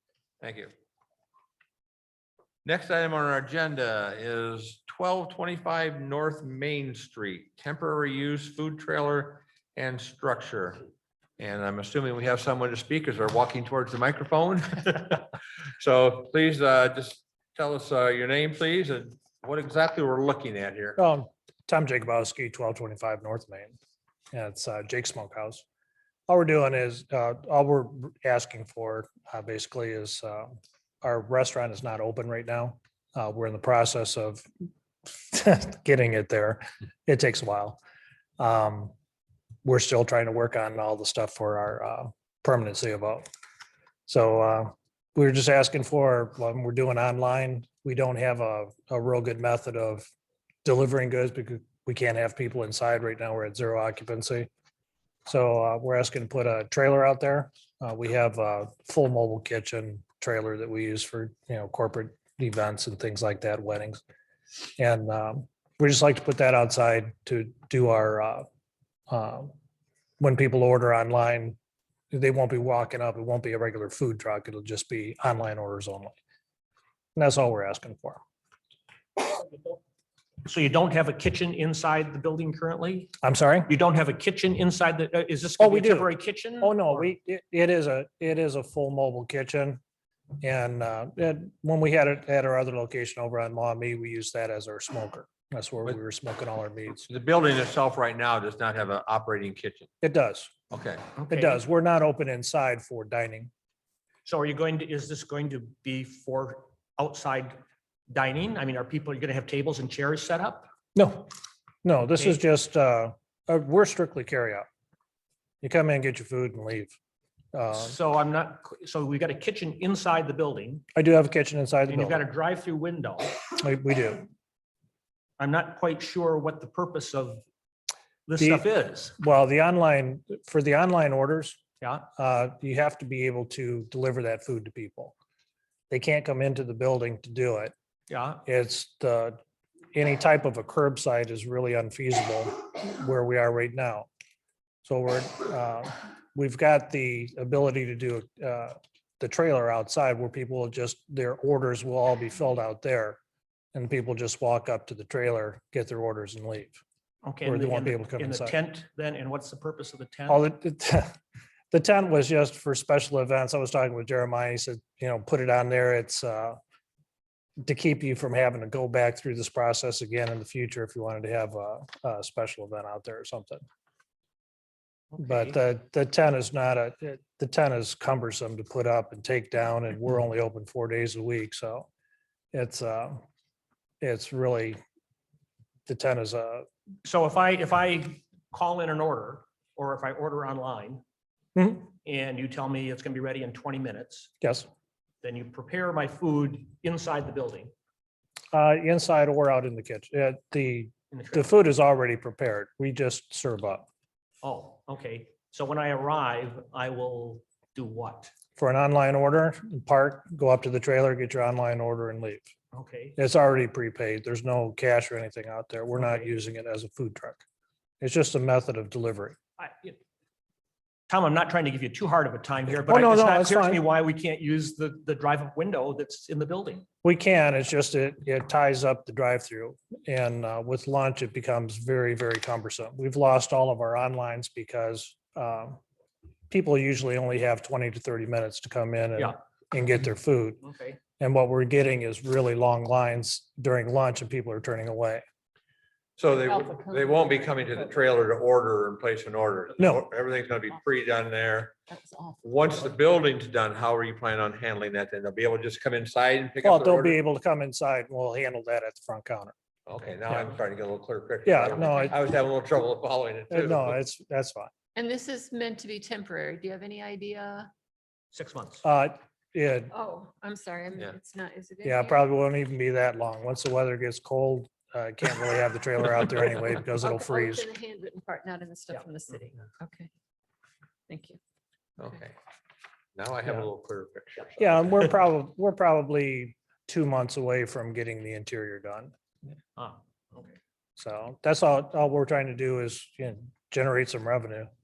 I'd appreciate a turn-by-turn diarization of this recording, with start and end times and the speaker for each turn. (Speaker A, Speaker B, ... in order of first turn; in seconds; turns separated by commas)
Speaker A: 0.4-0.7, Speaker A: 2.6-10.8, Speaker A: 11.4-15.3, Speaker A: 15.8-21.0, Speaker B: 21.0-23.8, Speaker B: 24.3-25.6, Speaker B: 26.3-34.5, Speaker B: 35.0-37.8, Speaker B: 38.4-38.9, Speaker B: 39.6-43.2, Speaker B: 44.1-50.0, Speaker B: 50.6-54.5, Speaker B: 55.2-64.0, Speaker B: 64.8-68.5, Speaker B: 69.1-69.5, Speaker B: 70.2-71.5, Speaker B: 72.1-76.1, Speaker B: 77.2-78.2, Speaker C: 79.2-79.8, Speaker C: 80.4-83.1, Speaker B: 83.2-83.7, Speaker C: 83.7-87.0, Speaker B: 85.6-89.8, Speaker B: 90.4-97.1, Speaker A: 97.1-99.9, Speaker B: 100.0-100.5, Speaker A: 100.7-101.1, Speaker C: 101.2-101.6, Speaker B: 101.3-103.5, Speaker C: 104.2-107.6, Speaker C: 108.1-110.7, Speaker B: 110.9-111.3, Speaker B: 111.8-114.7, Speaker B: 115.6-116.9, Speaker B: 117.5-118.0, Speaker C: 117.7-120.8, Speaker B: 120.9-122.2, Speaker C: 121.9-123.3, Speaker B: 123.5-124.3, Speaker C: 125.4-127.4, Speaker C: 128.3-129.1, Speaker B: 128.4-131.6, Speaker B: 132.2-135.1, Speaker B: 135.9-137.7, Speaker C: 138.1-138.4, Speaker B: 138.4-139.4, Speaker B: 139.9-144.1, Speaker B: 144.8-153.2, Speaker B: 153.7-156.8, Speaker C: 157.2-160.4, Speaker B: 157.4-158.6, Speaker B: 160.3-161.1, Speaker B: 161.7-166.6, Speaker B: 167.6-173.6, Speaker C: 175.1-175.5, Speaker B: 175.2-181.9, Speaker B: 182.5-183.2, Speaker B: 184.0-184.8, Speaker B: 185.9-186.7, Speaker C: 187.0-191.0, Speaker B: 191.6-191.8, Speaker C: 192.0-194.3, Speaker B: 194.4-194.7, Speaker C: 195.2-197.7, Speaker B: 198.5-203.9, Speaker C: 201.1-201.5, Speaker C: 204.4-208.3, Speaker B: 208.6-212.5, Speaker C: 212.7-213.2, Speaker B: 213.2-217.4, Speaker C: 216.0-216.3, Speaker B: 218.0-219.4, Speaker C: 219.6-220.0, Speaker C: 221.1-226.8, Speaker B: 222.7-223.8, Speaker B: 227.0-235.8, Speaker B: 236.5-240.6, Speaker C: 240.6-241.0, Speaker B: 241.2-245.2, Speaker A: 246.2-251.8, Speaker D: 246.4-247.7, Speaker B: 249.8-250.0, Speaker D: 251.9-252.9, Speaker A: 252.4-257.2, Speaker B: 256.6-259.5, Speaker A: 259.9-263.9, Speaker B: 261.4-262.2, Speaker D: 261.7-262.2, Speaker B: 263.5-264.7, Speaker D: 264.9-267.7, Speaker C: 268.3-268.9, Speaker B: 268.8-269.9, Speaker D: 269.9-272.2, Speaker B: 271.8-277.7, Speaker D: 277.0-280.1, Speaker D: 281.1-281.4, Speaker A: 282.0-282.3, Speaker A: 283.1-284.7, Speaker B: 284.6-289.1, Speaker C: 289.8-290.6, Speaker B: 291.0-294.7